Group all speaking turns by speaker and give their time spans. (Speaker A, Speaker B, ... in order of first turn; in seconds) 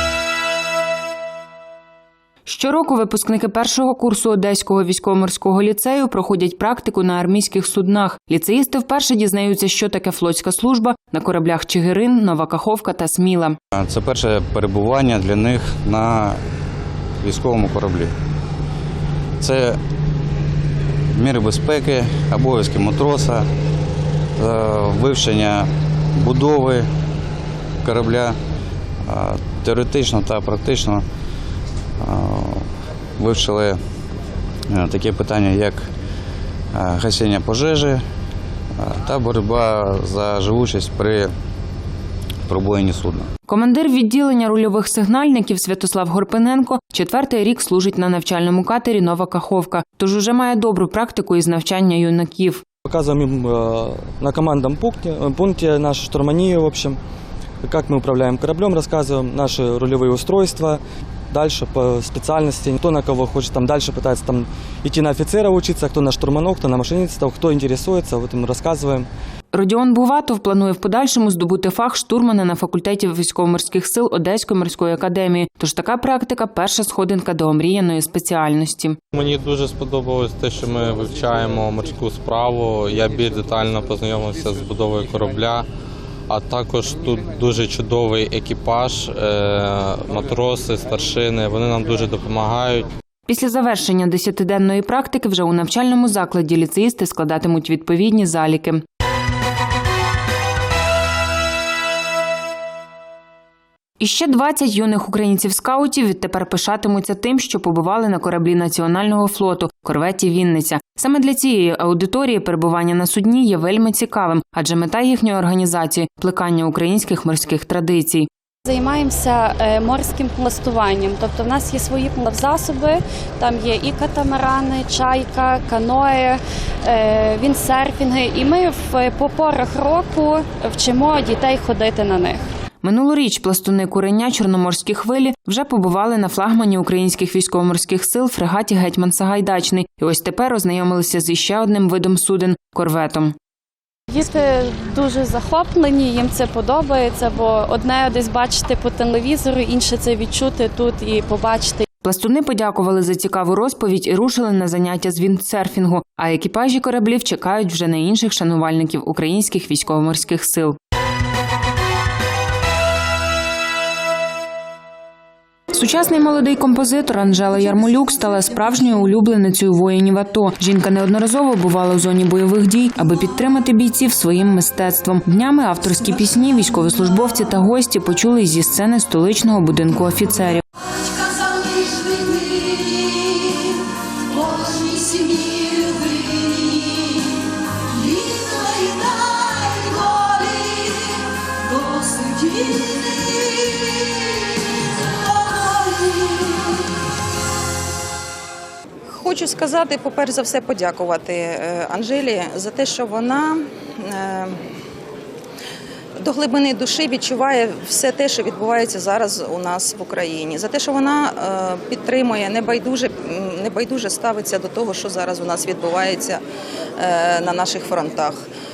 Speaker A: 2.5-13.6, 43.5-52.6, 69.5-79.0, 93.3-98.8, 104.0-118.3, 132.8-143.3, 152.0-160.8, 165.7-180.6
Speaker B: 13.7-16.4, 17.2-18.1, 19.4-19.8, 21.1-23.5, 24.4-26.9, 27.8-28.4, 29.1-31.1, 32.0-33.8, 34.7-35.9, 36.7-38.1, 38.8-41.3, 42.5-43.3
Speaker C: 52.9-57.0, 57.6-69.1
Speaker D: 79.1-85.7, 86.3-92.9
Speaker E: 118.7-132.4, 144.1-151.9
Speaker F: 199.1-204.6, 206.2-216.4, 217.0-218.4